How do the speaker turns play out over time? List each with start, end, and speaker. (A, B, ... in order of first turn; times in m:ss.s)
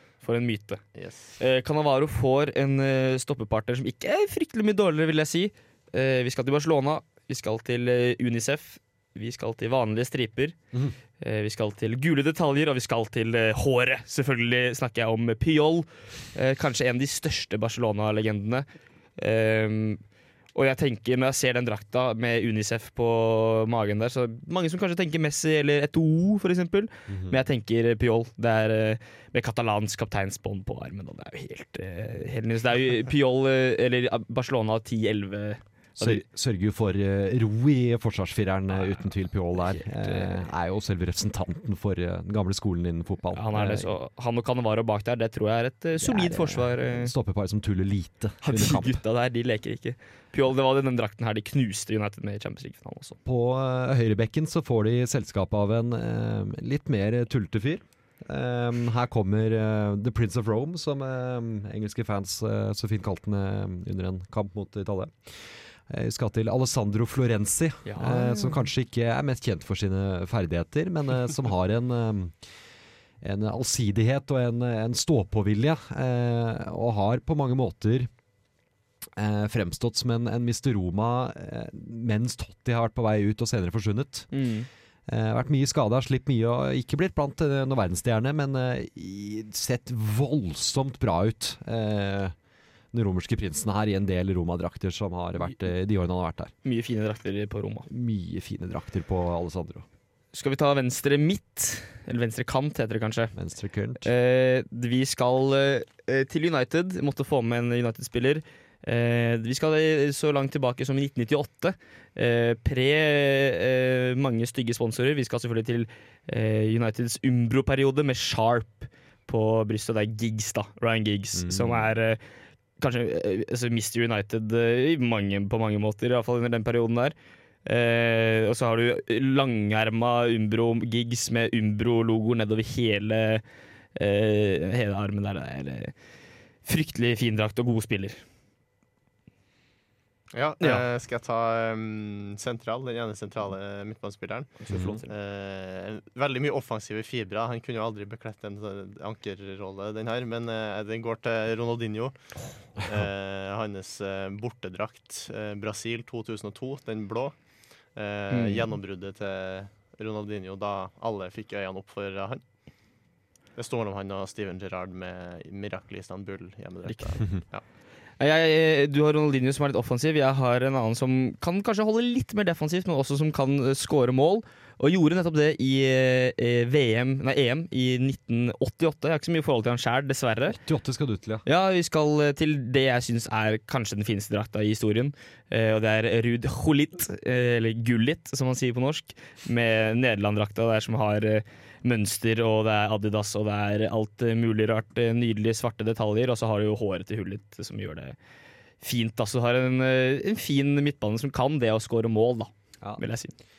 0:00.2-0:00.8 A
0:00.9-0:01.3 B
0:01.4-0:10.6 A
0:11.2-0:18.6 A
0:19.2-0:20.0 A
0:20.5-0:36.2 A
0:27.1-0:27.4 C
0:36.0-0:43.9 C
0:39.5-0:40.4 A
0:43.3-0:47.1 A
0:46.0-0:49.0 C
0:48.4-0:53.2 A
0:53.2-1:05.3 C
1:05.9-1:12.4 C
1:07.8-1:08.7 A
1:13.2-1:18.1 C
1:19.2-1:24.3 C
1:24.3-1:24.7 A
1:25.1-1:32.3 C
1:32.9-1:36.5 C
1:36.6-1:37.9 A
1:37.9-1:39.8 C
1:40.3-1:43.3 A
1:43.3-1:44.1 C
1:44.0-2:02.2 A
2:01.3-2:01.9 C
2:02.8-2:13.4 A
2:14.0-2:15.9 A
2:16.6-2:18.2 A
2:20.3-2:32.2 B
2:24.6-2:25.1 A
2:24.7-2:25.0 C
2:32.8-2:37.3 B
2:38.0-2:42.4 B
2:38.3-2:38.7 A
2:43.6-2:47.6 B
2:46.9-2:47.2 A
2:48.2-3:00.6 A
3:00.5-3:01.4 C
3:01.4-3:18.1 A
3:18.8-3:23.3 A